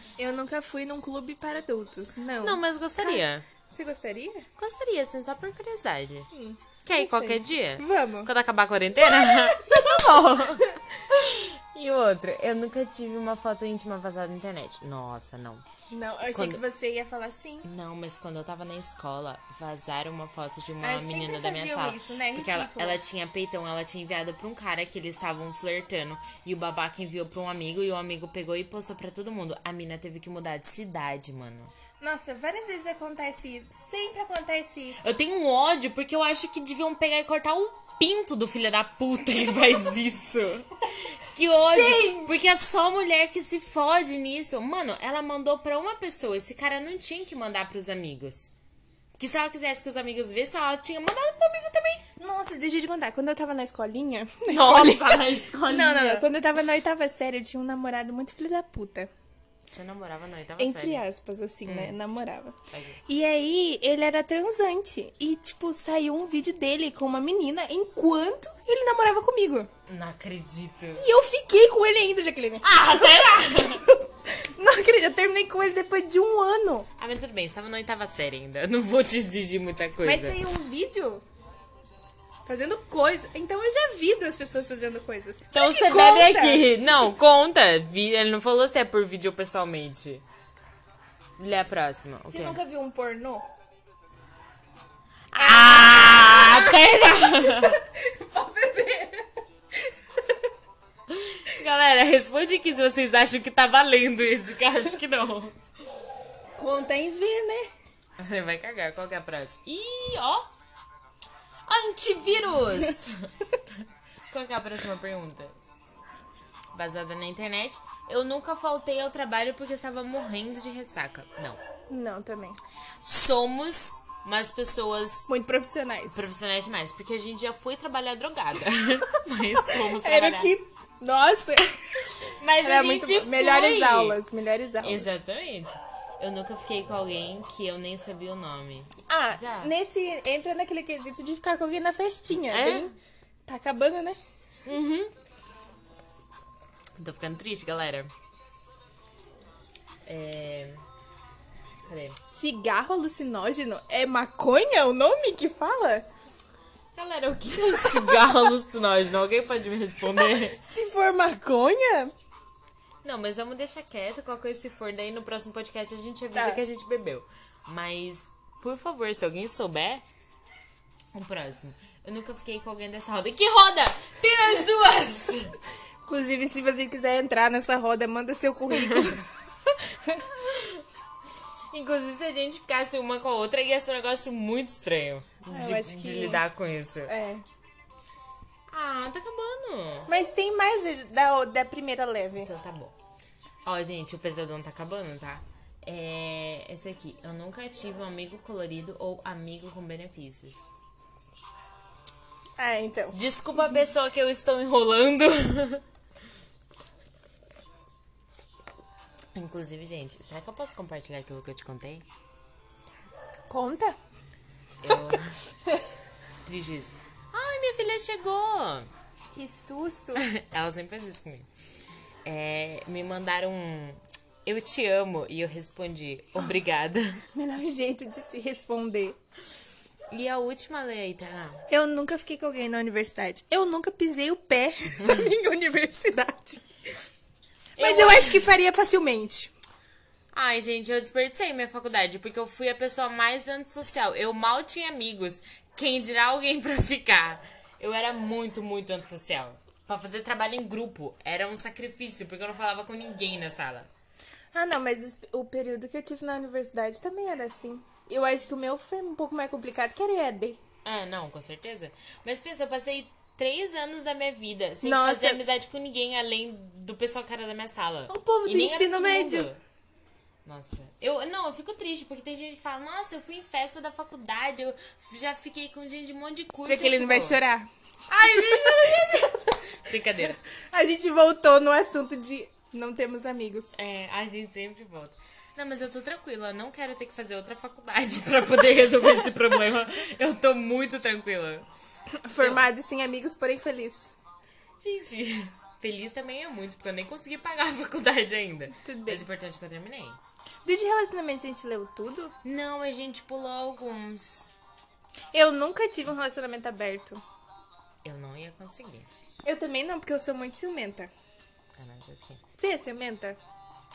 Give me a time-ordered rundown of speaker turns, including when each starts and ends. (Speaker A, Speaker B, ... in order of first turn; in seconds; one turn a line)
Speaker A: 0.2-4.5
Speaker B: 2.4-3.5
Speaker B: 4.6-6.3
Speaker A: 6.3-8.3
Speaker B: 6.8-15.6
Speaker A: 9.1-10.0
Speaker A: 15.9-17.7
Speaker B: 16.3-16.6
Speaker B: 17.6-31.7
Speaker A: 20.8-23.0
Speaker A: 32.0-35.1
Speaker B: 35.0-48.5
Speaker A: 41.7-42.3
Speaker B: 49.2-52.0
Speaker A: 52.2-59.1
Speaker B: 54.5-56.3
Speaker B: 59.6-61.0
Speaker A: 60.6-69.7
Speaker B: 61.6-62.0
Speaker B: 62.7-63.0
Speaker B: 69.8-71.0
Speaker A: 71.0-76.9
Speaker B: 72.6-73.9
Speaker B: 77.0-80.4
Speaker A: 80.0-81.2
Speaker A: 82.5-86.7
Speaker B: 85.5-90.2
Speaker B: 91.4-92.6
Speaker A: 92.3-93.5
Speaker B: 95.3-97.8
Speaker A: 95.3-99.3
Speaker A: 99.8-100.4
Speaker B: 101.1-105.6
Speaker A: 106.6-107.7
Speaker B: 108.2-110.5
Speaker B: 111.7-115.5
Speaker B: 116.7-121.6
Speaker A: 121.9-122.6
Speaker B: 123.0-125.3
Speaker A: 125.3-126.2
Speaker B: 126.1-130.5
Speaker A: 129.6-135.2
Speaker B: 132.4-134.2
Speaker B: 134.8-139.7
Speaker A: 139.1-142.9
Speaker B: 142.4-142.9
Speaker A: 143.5-144.2
Speaker B: 144.7-145.1
Speaker B: 146.9-148.1
Speaker B: 150.1-150.8
Speaker B: 151.8-152.2
Speaker A: 152.3-156.1
Speaker B: 156.9-160.6
Speaker A: 160.2-162.1
Speaker B: 163.0-170.0
Speaker A: 166.3-166.6
Speaker B: 171.1-175.5
Speaker A: 176.1-180.3
Speaker B: 178.7-179.2
Speaker B: 180.4-180.8
Speaker B: 181.7-187.1
Speaker A: 185.5-186.4
Speaker A: 187.1-187.4
Speaker B: 188.7-190.1
Speaker A: 190.1-192.5
Speaker B: 192.4-192.9
Speaker B: 193.6-200.7
Speaker A: 202.6-203.2
Speaker B: 203.1-205.8
Speaker B: 209.3-212.0
Speaker A: 213.5-214.0
Speaker B: 214.8-215.3
Speaker A: 214.9-215.8
Speaker B: 216.4-218.9
Speaker A: 219.3-220.3
Speaker B: 220.2-221.5
Speaker B: 222.2-227.2
Speaker A: 227.3-229.2
Speaker B: 230.1-231.6
Speaker A: 231.7-236.6
Speaker B: 235.0-235.3
Speaker B: 237.8-238.5
Speaker A: 237.8-239.5
Speaker B: 240.3-253.9
Speaker A: 254.5-260.6
Speaker B: 260.8-269.6
Speaker A: 264.8-265.4
Speaker A: 268.1-269.5
Speaker B: 270.4-277.4
Speaker A: 276.6-279.6
Speaker B: 278.1-280.4
Speaker A: 280.7-283.8
Speaker B: 283.7-291.7
Speaker A: 292.2-294.1
Speaker B: 292.4-292.6
Speaker B: 294.8-300.2
Speaker A: 298.8-299.2
Speaker A: 300.6-302.3
Speaker B: 302.4-304.5
Speaker A: 305.3-307.2
Speaker B: 308.0-309.1
Speaker A: 309.4-311.1
Speaker B: 311.8-312.4
Speaker A: 312.6-313.4